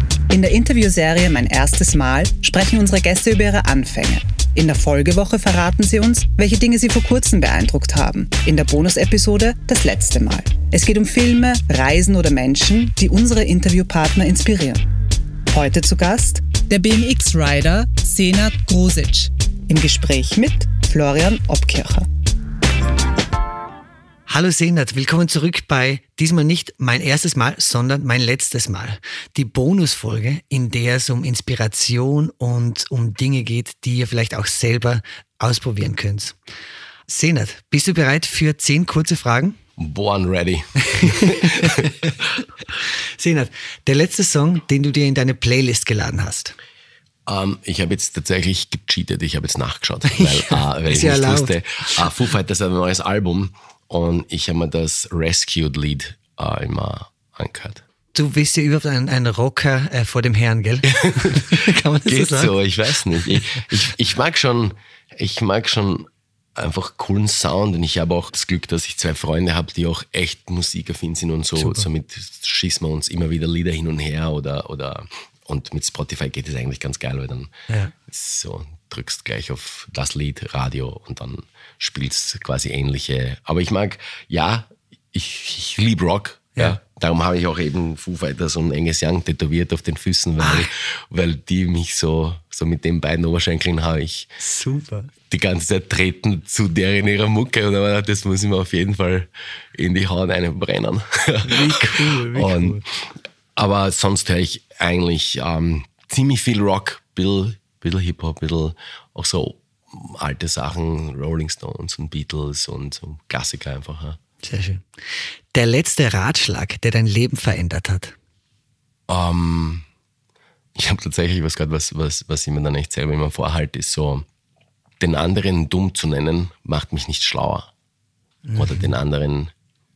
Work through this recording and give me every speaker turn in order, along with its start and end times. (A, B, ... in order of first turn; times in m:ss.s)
0:00.3-0:14.8 A
0:15.5-0:22.1 A
0:24.3-0:36.4 B
0:37.1-0:39.6 B
0:39.8-0:42.1 C
0:40.9-0:42.2 B
0:42.7-0:46.5 B
0:47.3-0:57.8 C
0:50.1-0:52.1 B
0:58.1-1:02.6 B
1:00.8-1:06.1 C
1:03.1-1:03.6 B
1:06.6-1:17.5 C
1:11.6-1:11.9 B
1:17.7-1:17.9 B
1:18.1-1:34.3 C
1:30.4-1:30.7 B
1:34.4-1:35.1 B
1:35.3-1:42.8 C
1:41.4-1:42.8 B
1:43.6-1:54.2 C
1:54.4-1:54.8 B
1:55.5-1:58.2 B
1:59.1-1:59.8 C
2:00.8-2:04.2 C
2:05.0-2:07.7 C
2:08.4-2:09.0 B
2:08.6-2:09.5 C